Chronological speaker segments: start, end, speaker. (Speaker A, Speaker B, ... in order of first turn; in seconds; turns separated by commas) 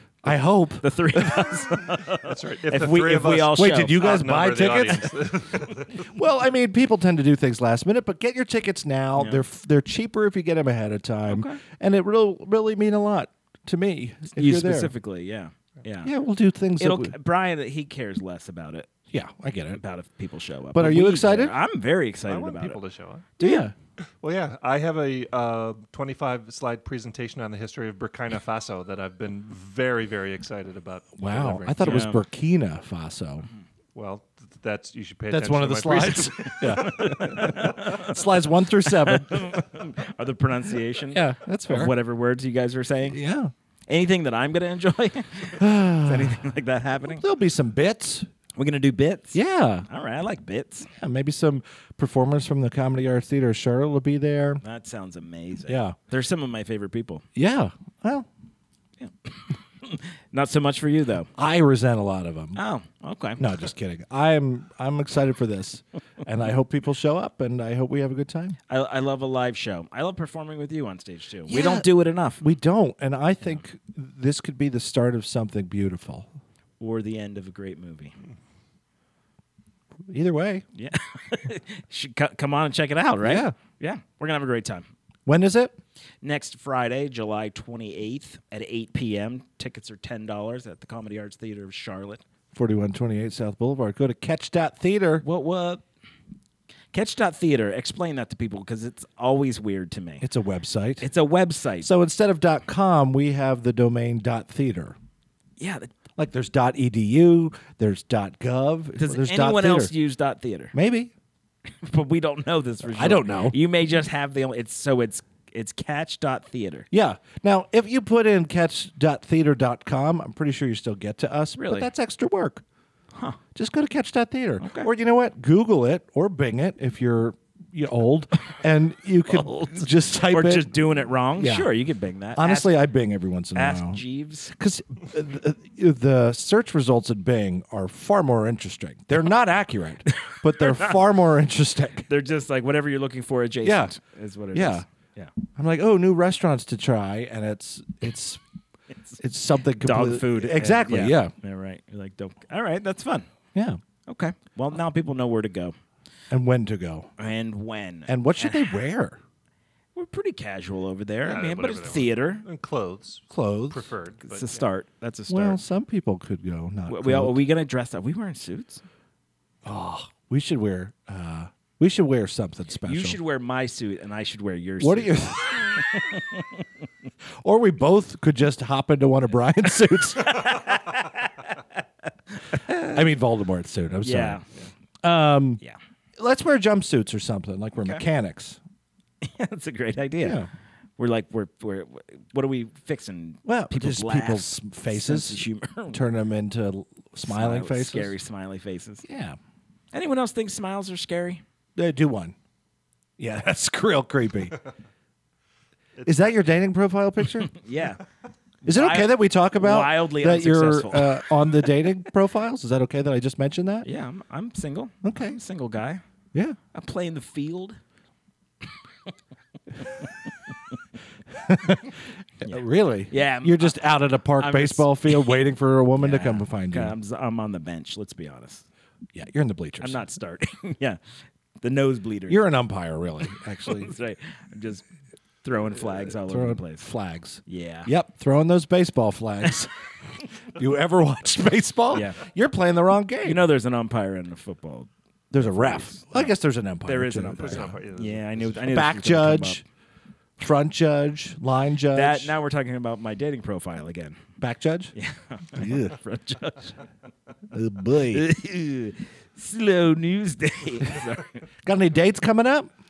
Speaker A: 0.2-1.5, Speaker B: 0.8-4.1, Speaker C: 2.2-6.1, Speaker A: 3.4-5.3, Speaker A: 6.0-14.9, Speaker B: 9.2-9.4, Speaker B: 11.3-11.6, Speaker B: 14.3-16.1, Speaker A: 16.0-17.1, Speaker B: 16.8-18.9, Speaker A: 19.1-19.8, Speaker B: 19.7-22.8, Speaker A: 20.7-21.6, Speaker C: 22.2-23.3, Speaker A: 23.4-23.7, Speaker B: 23.4-23.7, Speaker C: 24.2-32.1, Speaker A: 31.2-33.5, Speaker B: 31.8-32.2, Speaker C: 33.9-37.5, Speaker A: 35.3-39.8, Speaker B: 36.8-38.1, Speaker B: 38.9-43.2, Speaker A: 41.1-41.9, Speaker A: 43.1-43.5, Speaker B: 43.9-47.2, Speaker A: 45.6-46.4, Speaker A: 47.1-48.3, Speaker B: 48.5-50.9, Speaker A: 49.3-49.9, Speaker A: 51.0-54.6, Speaker B: 54.6-57.2, Speaker A: 55.7-56.0, Speaker A: 57.3-58.3, Speaker B: 59.0-61.3, Speaker A: 61.4-62.6, Speaker B: 62.5-63.4, Speaker A: 63.4-68.6, Speaker B: 68.7-72.4, Speaker A: 71.5-76.3, Speaker B: 76.8-78.1, Speaker A: 80.1-80.6, Speaker B: 80.7-84.9, Speaker A: 83.2-83.5, Speaker A: 85.2-85.8, Speaker B: 86.2-92.2, Speaker A: 92.5-95.2, Speaker B: 95.2-95.8, Speaker B: 96.9-100.2, Speaker A: 100.2-101.1, Speaker B: 101.0-101.9, Speaker A: 101.8-105.0, Speaker B: 105.6-105.9, Speaker A: 106.2-109.9, Speaker B: 109.0-110.7, Speaker A: 110.7-111.1, Speaker B: 111.8-116.9, Speaker A: 112.8-113.6, Speaker A: 116.9-122.6, Speaker B: 121.6-121.9, Speaker B: 123.1-123.4, Speaker A: 123.5-130.8, Speaker B: 124.6-124.9, Speaker B: 129.3-132.8, Speaker A: 131.4-131.7, Speaker A: 132.3-142.1, Speaker B: 133.5-134.5, Speaker B: 140.1-141.0, Speaker B: 142.1-145.3, Speaker A: 143.6-143.9, Speaker A: 144.5-144.8, Speaker A: 145.6-148.4, Speaker A: 149.2-151.3, Speaker B: 149.8-153.3, Speaker A: 153.5-153.8, Speaker B: 154.1-155.8, Speaker A: 156.3-157.1, Speaker B: 157.2-158.7, Speaker A: 158.1-159.2, Speaker B: 159.9-162.4, Speaker C: 161.2-164.6, Speaker A: 163.3-163.8, Speaker B: 164.2-165.6, Speaker A: 165.3-167.4, Speaker B: 166.9-168.8, Speaker A: 169.6-173.2, Speaker B: 172.8-176.6, Speaker A: 174.8-175.8, Speaker A: 177.4-180.6, Speaker B: 180.2-181.6, Speaker B: 182.5-182.9, Speaker A: 182.7-184.4, Speaker B: 184.0-184.4, Speaker A: 185.0-185.6, Speaker A: 186.2-188.6, Speaker B: 189.2-190.4, Speaker A: 190.2-190.5, Speaker B: 191.0-196.0, Speaker A: 193.4-198.1, Speaker B: 197.2-199.0, Speaker A: 199.0-199.4, Speaker B: 199.9-201.4, Speaker A: 201.8-202.3, Speaker A: 203.2-204.6, Speaker C: 205.9-206.4, Speaker A: 206.0-207.6, Speaker B: 207.5-208.0, Speaker A: 208.6-213.9, Speaker B: 208.7-211.5, Speaker B: 213.8-216.0, Speaker A: 215.0-215.4, Speaker B: 216.7-217.8, Speaker B: 219.8-220.0, Speaker A: 221.3-226.9, Speaker B: 222.4-225.4, Speaker B: 226.0-228.6, Speaker A: 229.1-230.0, Speaker B: 229.8-231.0, Speaker B: 231.6-232.4, Speaker A: 232.3-233.9, Speaker B: 233.7-234.8, Speaker B: 235.4-236.9, Speaker A: 236.0-239.7, Speaker B: 237.4-237.9, Speaker A: 240.5-243.4, Speaker B: 241.9-242.2, Speaker B: 243.2-246.3, Speaker A: 245.3-247.8, Speaker B: 246.8-249.6, Speaker C: 247.3-248.8, Speaker A: 248.7-249.6, Speaker A: 250.4-252.3, Speaker B: 251.9-254.2, Speaker A: 254.4-254.9, Speaker B: 254.9-256.8, Speaker A: 255.5-255.9, Speaker A: 257.5-258.3, Speaker B: 258.0-261.5, Speaker A: 261.6-262.7